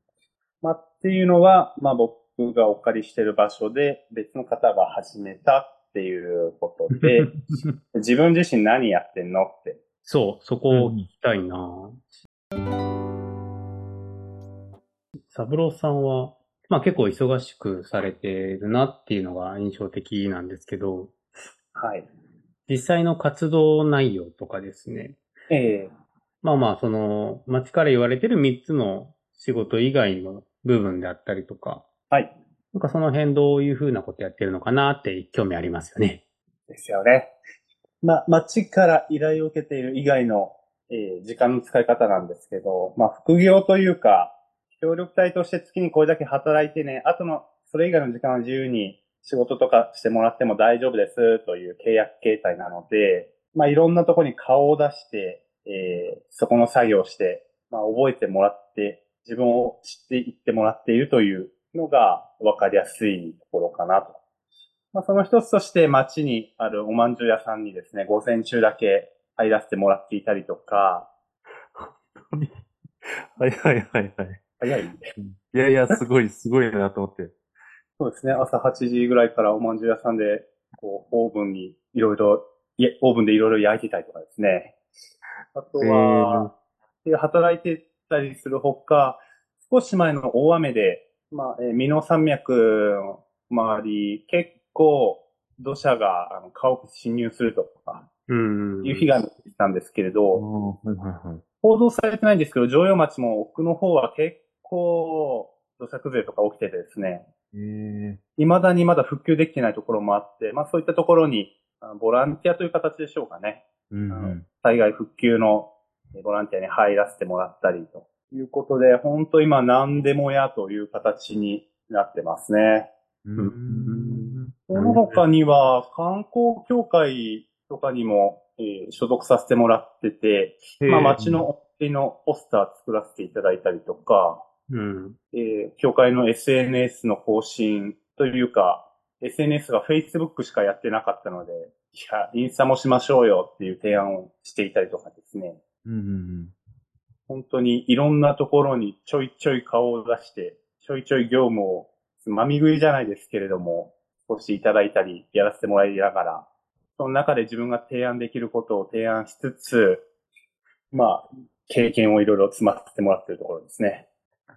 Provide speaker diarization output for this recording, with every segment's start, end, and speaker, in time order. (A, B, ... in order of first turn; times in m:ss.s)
0:00.6-0:07.3 A
0:06.9-0:07.7 B
0:07.9-0:09.8 A
0:10.0-0:12.2 B
0:10.7-0:11.1 C
0:15.3-0:21.1 B
0:21.7-0:22.1 A
0:22.7-0:25.2 B
0:25.5-0:25.9 A
0:26.4-0:31.8 B
0:32.7-0:36.2 B
0:36.7-0:37.3 A
0:38.0-1:04.2 A
1:04.9-1:11.1 A
1:11.7-1:14.4 C
1:14.6-1:15.0 A
1:15.2-1:17.3 C
1:18.0-1:24.7 A
1:25.5-1:26.5 A
1:25.8-1:26.5 C
1:27.0-1:38.0 A
1:38.3-1:39.1 B
1:38.8-1:40.4 A
1:40.3-1:41.4 C
1:41.6-1:47.2 A
1:47.5-1:48.2 C
1:48.4-2:02.9 A
1:53.9-1:54.4 C
2:03.2-2:05.2 C
2:03.4-2:04.4 B
2:04.7-2:14.4 A
2:10.8-2:11.4 C
2:10.8-2:11.1 B
2:14.7-2:15.2 B
2:15.3-2:25.6 A
2:25.8-2:26.5 C
2:27.3-2:36.4 A
2:37.0-2:40.0 A
2:40.9-2:44.0 A